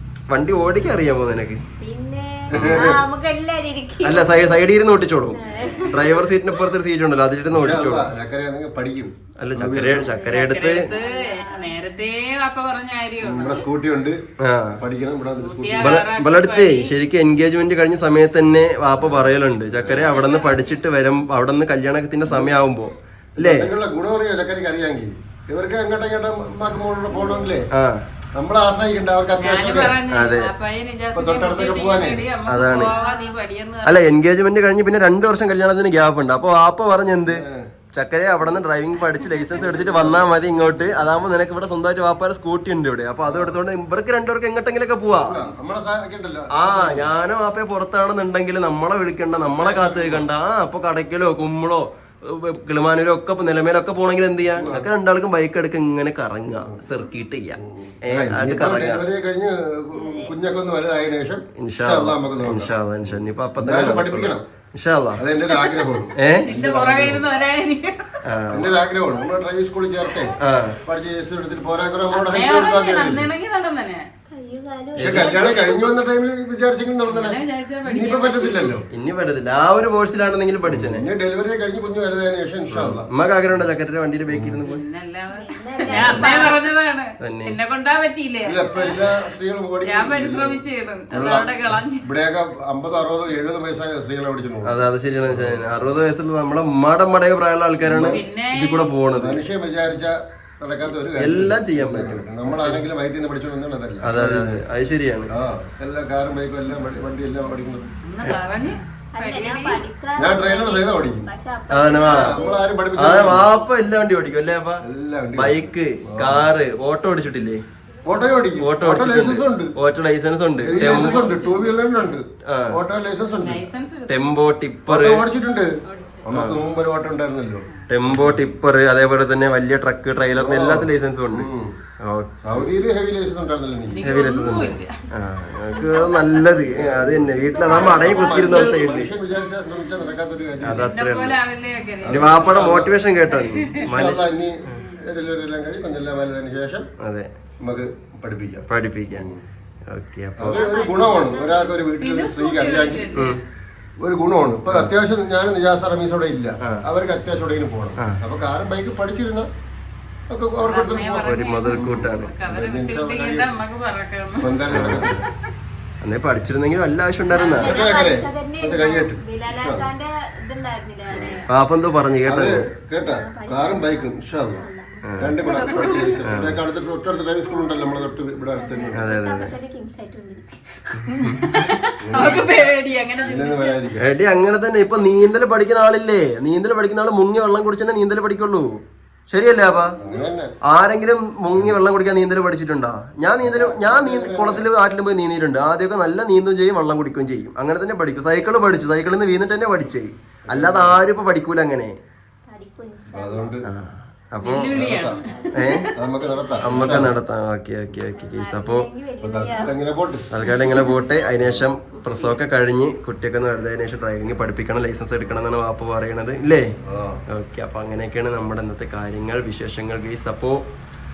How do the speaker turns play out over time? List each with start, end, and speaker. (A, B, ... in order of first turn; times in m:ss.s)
0:00.3-0:01.6 A
0:01.8-0:04.6 B
0:02.5-0:03.0 C
0:02.5-0:02.9 A
0:04.0-0:08.1 A
0:05.3-0:06.6 B
0:07.5-0:10.1 C
0:09.4-0:10.8 A
0:09.9-0:11.7 B
0:10.2-0:13.7 D
0:13.2-0:14.2 C
0:14.4-0:14.8 A
0:14.8-0:16.0 C
0:15.4-0:16.9 D
0:15.8-0:23.7 A
0:19.8-0:20.8 D
0:22.3-0:22.5 C
0:23.4-0:27.7 C
0:27.1-0:27.6 B
0:27.7-0:28.0 A
0:28.3-0:30.0 C
0:29.4-0:34.0 D
0:30.1-0:30.5 A
0:31.1-0:32.3 C
0:32.4-0:32.9 A
0:32.9-0:33.4 B
0:33.8-0:45.4 A
0:37.3-0:37.7 C
0:43.2-0:43.6 C
0:45.1-0:47.1 C
0:46.6-0:59.0 A
0:49.5-0:50.2 C
0:54.6-0:54.9 C
0:57.6-1:04.4 C
1:00.0-1:00.4 B
1:01.6-1:05.2 A
1:05.2-1:07.2 C
1:05.5-1:08.2 D
1:06.2-1:06.4 A
1:08.2-1:08.7 A
1:08.5-1:13.3 C
1:10.4-1:10.8 A
1:12.1-1:14.0 D
1:14.3-1:15.9 B
1:15.0-1:15.5 A
1:15.0-1:18.8 C
1:17.1-1:18.7 D
1:18.9-1:21.0 A
1:20.7-1:23.1 C
1:22.7-1:24.8 A
1:24.3-1:24.6 C
1:24.6-1:29.3 D
1:25.3-1:26.6 B
1:25.9-1:26.3 C
1:27.2-1:27.5 A
1:28.4-1:36.0 C
1:29.8-1:32.0 D
1:34.6-1:39.4 A
1:37.8-1:38.2 C
1:38.0-1:38.9 D
1:39.2-1:44.6 C
1:41.2-1:42.8 A
1:44.0-1:45.3 A
1:45.3-1:47.9 C
1:48.0-1:49.8 D
1:49.1-1:52.7 B
1:50.2-1:51.3 C
1:51.7-1:52.4 A
1:52.0-1:53.5 C
1:53.0-1:54.8 A
1:54.8-1:56.5 C
1:55.4-1:57.6 A
1:58.0-1:59.7 C
1:58.6-2:01.3 A
2:00.6-2:03.7 C
2:00.8-2:02.1 D
2:02.5-2:02.8 A
2:03.4-2:04.2 D
2:04.1-2:05.2 A
2:04.9-2:05.7 C
2:05.9-2:06.2 D
2:06.2-2:08.4 C
2:06.3-2:06.6 A
2:07.9-2:11.5 A
2:10.3-2:11.7 C
2:12.0-2:12.7 A
2:12.4-2:14.3 C
2:13.9-2:14.9 D
2:14.0-2:19.1 A
2:15.8-2:16.4 D
2:16.7-2:20.9 C
2:17.2-2:18.8 B
2:17.7-2:18.0 D
2:20.6-2:21.4 A
2:20.7-2:22.4 D
2:22.0-2:23.0 C
2:22.1-2:24.8 A
2:23.3-2:23.8 D
2:23.8-2:26.8 C
2:27.0-2:27.3 A
2:27.6-2:29.4 C
2:28.7-2:29.3 A
2:29.9-2:30.6 A
2:30.4-2:33.2 C
2:30.5-2:31.9 B
2:31.9-2:33.4 D
2:34.0-2:39.5 C
2:40.3-2:43.5 C
2:40.6-2:45.3 D
2:41.2-2:42.3 A
2:44.4-2:45.2 C
2:44.7-2:45.1 A
2:46.0-2:47.8 A
2:47.3-2:47.8 D
2:47.5-2:51.4 B
2:47.6-2:49.9 C
2:51.5-2:52.6 A
2:52.2-2:54.6 C
2:53.0-2:56.4 B
2:55.1-2:55.4 A
2:55.2-2:59.0 C
2:55.5-2:56.2 D
2:56.3-2:56.6 A
2:57.4-3:01.3 B
2:58.9-2:59.6 A
3:01.1-3:03.9 D
3:01.2-3:01.6 A
3:02.0-3:02.5 C
3:03.2-3:04.0 C
3:04.0-3:10.0 A
3:10.0-3:10.5 C
3:10.7-3:22.0 A
3:13.4-3:14.6 C
3:20.5-3:21.0 C
3:22.5-3:23.6 B
3:23.1-3:23.6 C
3:23.6-3:24.7 A
3:24.4-3:25.9 D
3:24.7-3:25.2 C
3:25.0-3:27.0 B
3:25.5-3:25.9 A
3:25.9-3:27.1 C
3:26.6-3:28.9 A
3:28.1-3:31.0 B
3:29.2-3:30.4 C
3:30.3-3:36.6 A
3:31.4-3:31.6 C
3:32.1-3:32.3 D
3:36.8-3:37.2 C
3:37.3-3:40.6 A